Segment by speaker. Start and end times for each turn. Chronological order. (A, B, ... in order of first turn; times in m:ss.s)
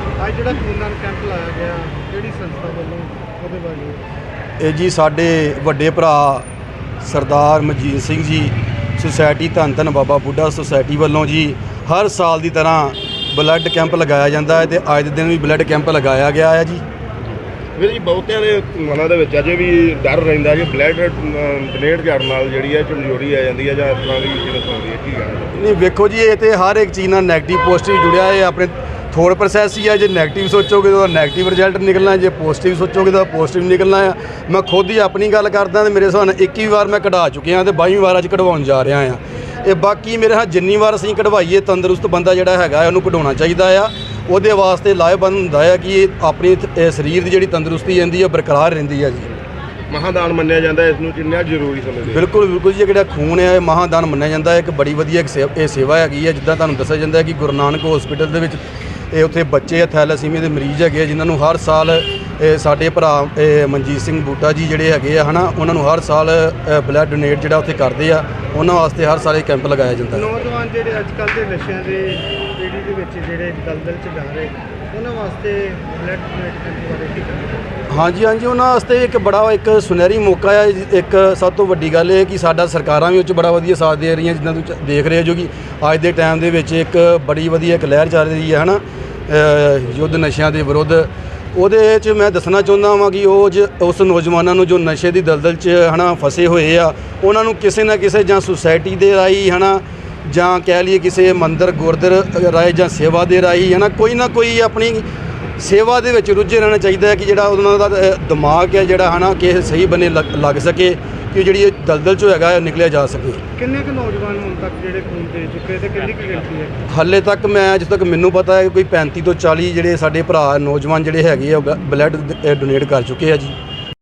0:00.2-0:04.0 A
0:04.6-0:06.4 B
0:07.0-0:16.8 B
0:17.8-0:25.5 C
0:25.5-0:49.3 B
0:49.9-0:52.3 C
0:52.1-1:10.2 B
1:10.1-1:17.7 A
1:17.9-1:45.0 B
1:45.6-1:53.4 B
1:53.6-1:56.7 A
1:56.9-2:03.5 B